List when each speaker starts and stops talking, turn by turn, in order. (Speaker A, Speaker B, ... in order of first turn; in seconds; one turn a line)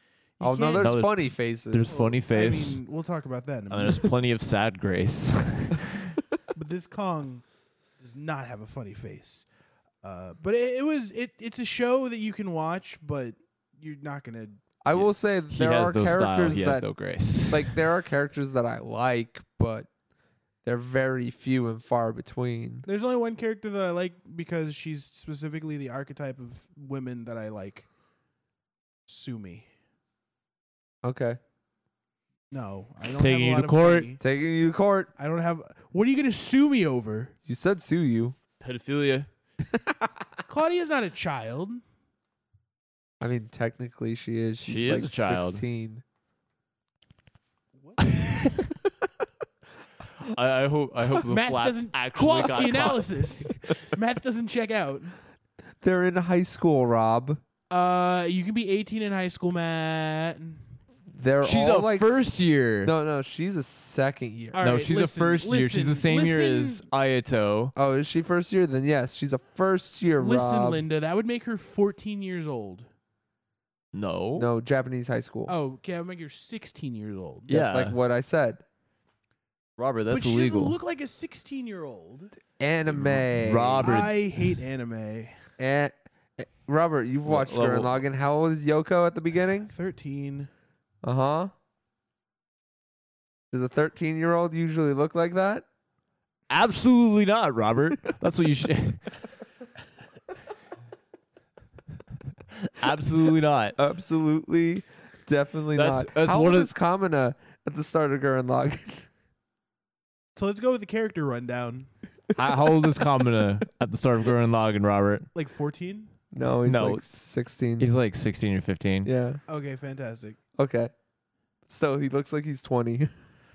Speaker A: 0.4-0.9
Speaker B: 0.4-2.0
Speaker C: 0.8-1.1
Speaker C: 1.7-2.8
Speaker A: 1.9-4.1
Speaker C: 3.7-6.2
Speaker A: 6.5-7.4
Speaker A: 8.0-9.4
Speaker A: 10.0-14.6
Speaker B: 14.8-16.8
Speaker C: 14.9-17.8
Speaker B: 17.4-19.9
Speaker B: 20.6-22.9
Speaker A: 22.8-27.9
Speaker A: 29.1-29.7
Speaker B: 31.0-31.4
Speaker A: 32.5-34.2
Speaker C: 33.2-34.1
Speaker B: 34.2-35.1
Speaker A: 35.2-37.4
Speaker B: 37.5-38.4
Speaker C: 38.6-39.3
Speaker B: 39.7-40.1
Speaker A: 40.5-41.8
Speaker B: 43.2-46.0
Speaker C: 44.6-45.6
Speaker A: 47.8-48.7
Speaker C: 50.2-53.1
Speaker A: 51.3-55.1
Speaker B: 52.3-53.0
Speaker B: 55.8-57.4
Speaker A: 57.7-60.7
Speaker B: 61.1-64.6
Speaker C: 61.4-62.9
Speaker A: 64.5-66.9
Speaker C: 64.6-67.7
Speaker B: 67.8-70.8
Speaker A: 70.2-72.9
Speaker C: 73.9-74.5
Speaker B: 74.4-75.5
Speaker A: 75.5-77.5
Speaker C: 77.5-77.9
Speaker B: 77.5-78.6
Speaker C: 79.8-80.7
Speaker A: 80.1-82.3
Speaker B: 82.6-84.0
Speaker C: 82.9-84.1
Speaker A: 83.8-85.4
Speaker B: 85.6-89.7
Speaker C: 87.2-88.0
Speaker A: 89.7-90.5
Speaker B: 91.0-91.5
Speaker B: 93.5-95.6
Speaker C: 96.5-99.1
Speaker C: 102.6-103.8
Speaker B: 103.8-109.1
Speaker C: 105.7-106.7
Speaker A: 110.3-111.9
Speaker C: 112.3-115.3
Speaker A: 115.3-116.1
Speaker B: 116.3-117.9
Speaker C: 116.7-117.0
Speaker C: 117.8-119.1
Speaker B: 119.0-119.4
Speaker A: 119.5-120.4
Speaker B: 120.6-120.9
Speaker B: 121.7-123.1